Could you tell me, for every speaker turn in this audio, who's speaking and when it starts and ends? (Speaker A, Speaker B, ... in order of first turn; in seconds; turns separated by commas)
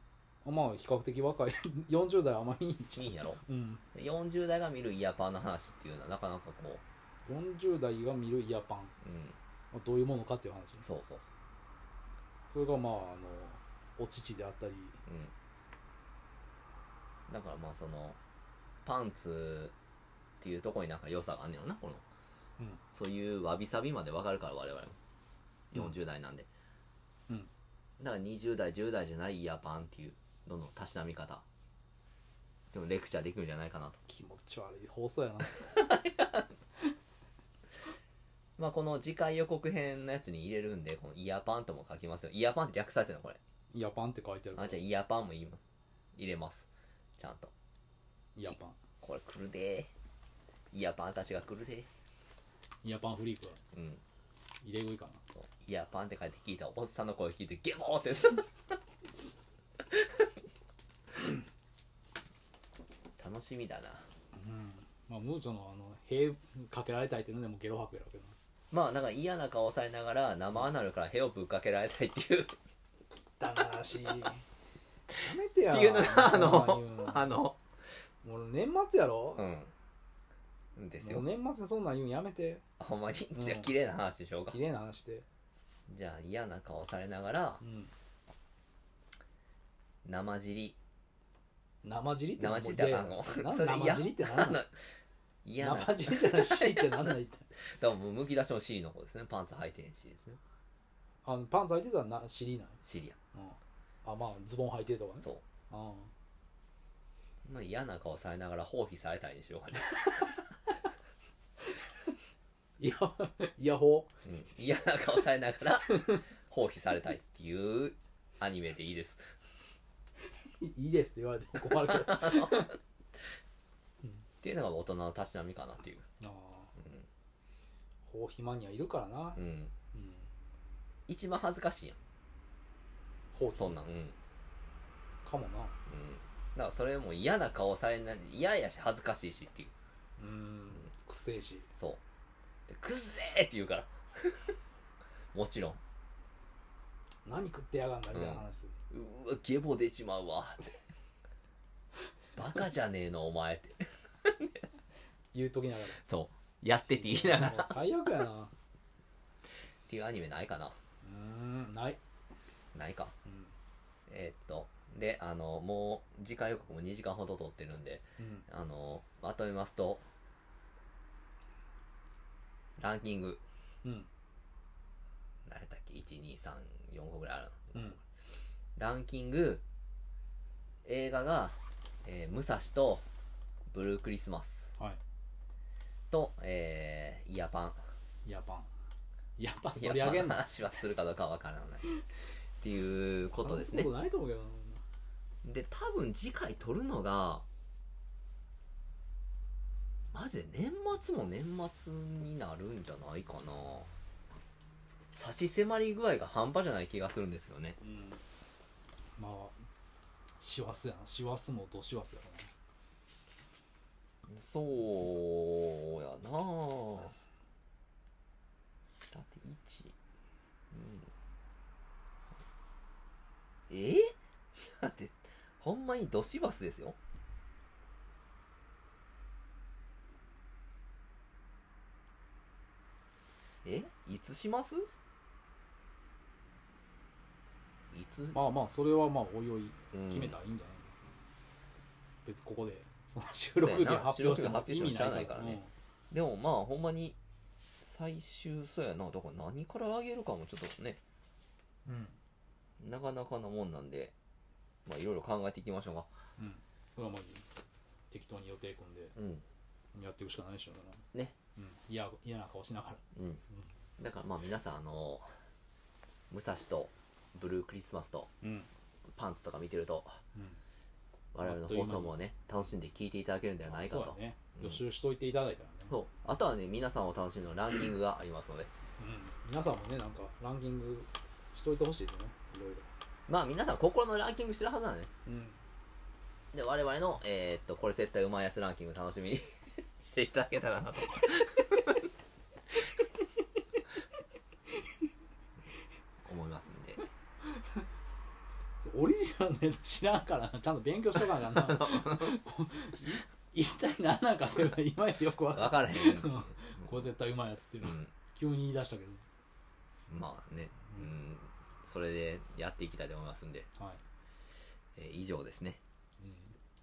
Speaker A: 0.4-3.8, Speaker B: 3.0-3.4, Speaker B: 3.9-6.8, Speaker A: 7.3-8.9, Speaker B: 9.0-9.4, Speaker A: 9.7-10.8, Speaker B: 10.8-11.3, Speaker A: 12.5-15.0, Speaker B: 15.1-15.3, Speaker B: 17.3-18.2, Speaker B: 18.9-19.7, Speaker B: 20.4-22.0, Speaker B: 22.9-25.0, Speaker B: 25.7-26.5, Speaker B: 28.0-31.4, Speaker B: 32.7-34.0, Speaker A: 34.1-35.9, Speaker B: 35.7-36.5, Speaker B: 38.6-43.4, Speaker A: 43.7-44.8, Speaker B: 44.6-45.6, Speaker B: 46.1-46.7, Speaker B: 47.2-47.5, Speaker A: 48.4-48.8, Speaker B: 48.5-49.9, Speaker B: 50.7-51.9, Speaker A: 52.8-53.6, Speaker B: 53.7-54.0, Speaker A: 54.6-55.2, Speaker B: 55.4-58.5, Speaker B: 63.2-64.1, Speaker A: 64.3-68.3, Speaker B: 68.7-72.6, Speaker A: 73.4-74.5, Speaker A: 75.1-77.4, Speaker B: 75.7-77.6, Speaker A: 78.2-79.5, Speaker B: 79.4-79.7, Speaker B: 80.8-81.3, Speaker A: 81.0-82.6, Speaker B: 82.8-84.6, Speaker A: 83.3-83.7, Speaker A: 84.5-85.2, Speaker B: 85.9-87.6, Speaker A: 87.6-87.9, Speaker B: 90.0-90.7, Speaker A: 91.8-94.6, Speaker B: 92.4-94.8, Speaker B: 95.5-100.4, Speaker A: 95.6-97.5, Speaker A: 101.2-102.8, Speaker B: 102.8-103.2, Speaker A: 103.3-106.1, Speaker B: 107.4-110.4, Speaker A: 112.8-114.2, Speaker B: 114.2-119.3, Speaker A: 115.9-116.2, Speaker A: 120.2-122.8, Speaker B: 121.6-122.7, Speaker B: 124.4-126.0, Speaker A: 126.2-126.7, Speaker B: 126.8-127.0, Speaker A: 128.1-129.4, Speaker B: 129.4-129.7, Speaker A: 129.9-130.3, Speaker B: 131.1-132.0, Speaker A: 133.3-133.8, Speaker B: 133.5-134.2, Speaker A: 135.2-135.8, Speaker B: 135.9-139.7, Speaker A: 140.2-141.7, Speaker B: 142.7-144.6, Speaker B: 145.3-145.8, Speaker A: 147.2-148.8, Speaker B: 148.1-150.8, Speaker B: 152.4-154.6, Speaker A: 155.3-156.0, Speaker B: 156.0-157.8, Speaker A: 157.0-158.5, Speaker B: 159.9-160.8, Speaker A: 161.0-162.0, Speaker B: 162.7-163.1, Speaker A: 163.2-163.5, Speaker B: 164.1-170.1, Speaker A: 168.2-168.5, Speaker B: 172.8-173.4, Speaker A: 173.8-174.1, Speaker B: 175.4-177.9, Speaker A: 177.7-178.0, Speaker B: 178.8-179.6, Speaker B: 180.8-183.0, Speaker B: 183.7-184.7, Speaker B: 186.1-187.8, Speaker A: 188.2-188.7, Speaker A: 189.4-190.4, Speaker B: 189.8-191.9, Speaker B: 192.6-193.9, Speaker A: 193.4-194.8, Speaker B: 195.4-197.4, Speaker B: 200.1-203.9, Speaker B: 205.1-207.8, Speaker A: 207.8-208.2, Speaker A: 209.2-209.7, Speaker A: 210.4-212.5, Speaker B: 214.3-217.2, Speaker B: 219.1-219.9, Speaker B: 220.7-221.1, Speaker B: 223.7-227.0, Speaker B: 233.7-234.9, Speaker B: 237.9-238.4, Speaker A: 238.3-241.2, Speaker B: 239.9-240.4, Speaker A: 242.2-245.7, Speaker B: 243.6-245.6, Speaker B: 246.1-247.2, Speaker B: 247.8-251.0, Speaker A: 251.8-252.2, Speaker B: 252.8-254.1, Speaker B: 254.9-256.1, Speaker A: 256.4-257.5, Speaker A: 258.1-259.1, Speaker B: 259.2-259.4, Speaker A: 259.9-261.1, Speaker A: 261.6-263.7, Speaker B: 263.1-263.4, Speaker B: 264.0-265.3, Speaker B: 266.3-268.3, Speaker A: 268.4-268.7, Speaker B: 269.1-270.2, Speaker B: 271.3-274.8, Speaker A: 271.4-272.1, Speaker A: 273.7-275.9, Speaker B: 275.9-278.7, Speaker A: 279.0-282.9, Speaker B: 283.3-285.1, Speaker A: 285.3-285.6, Speaker B: 286.5-292.1, Speaker B: 296.2-297.1, Speaker A: 297.4-297.9, Speaker A: 298.8-309.2, Speaker B: 301.4-302.4, Speaker B: 305.5-306.6, Speaker B: 307.8-308.1, Speaker B: 310.1-313.7, Speaker A: 313.8-314.0, Speaker B: 314.9-315.8, Speaker A: 316.2-316.6